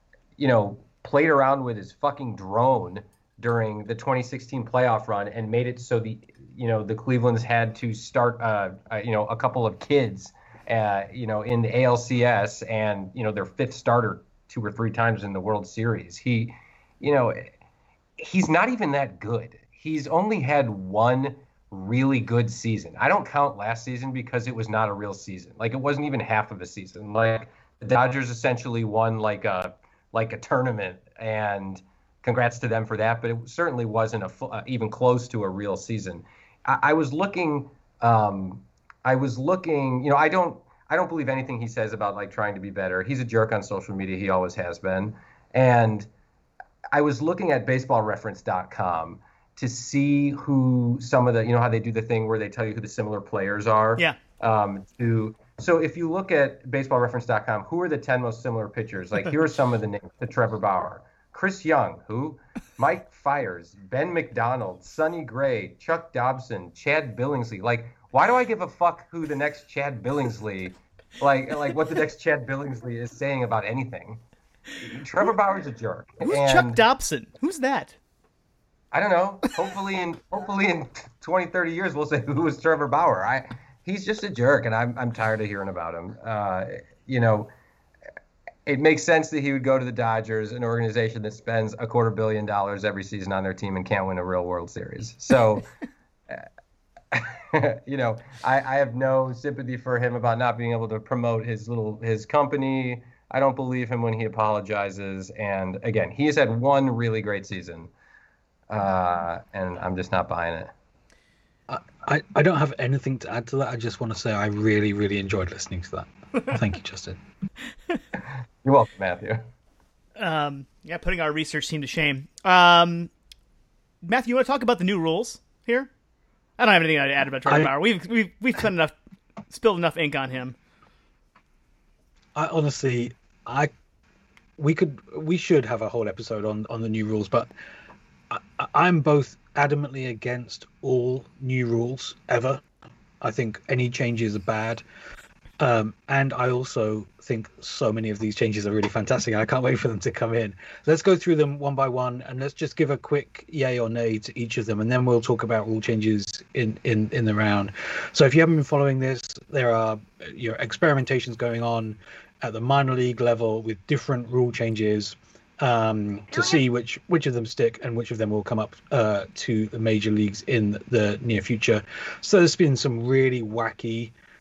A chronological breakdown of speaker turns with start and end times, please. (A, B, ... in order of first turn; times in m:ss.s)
0:00.4-0:17.5 A
0:18.2-0:46.1 A
0:46.9-1:14.2 A
1:14.8-1:16.8 A
1:16.2-1:17.9 B
1:18.9-1:27.5 A
1:28.6-1:35.7 A
1:37.1-1:47.9 A
1:48.7-1:50.7 A
1:51.7-1:57.2 C
1:58.6-1:59.5 A
2:00.2-2:03.1 B
2:04.0-2:05.9 B
2:06.6-2:08.9 B
2:09.5-2:10.6 B
2:12.4-2:13.7 C
2:14.6-2:17.5 C
2:18.3-2:22.6 C
2:23.2-2:24.8 C
2:25.6-2:54.1 C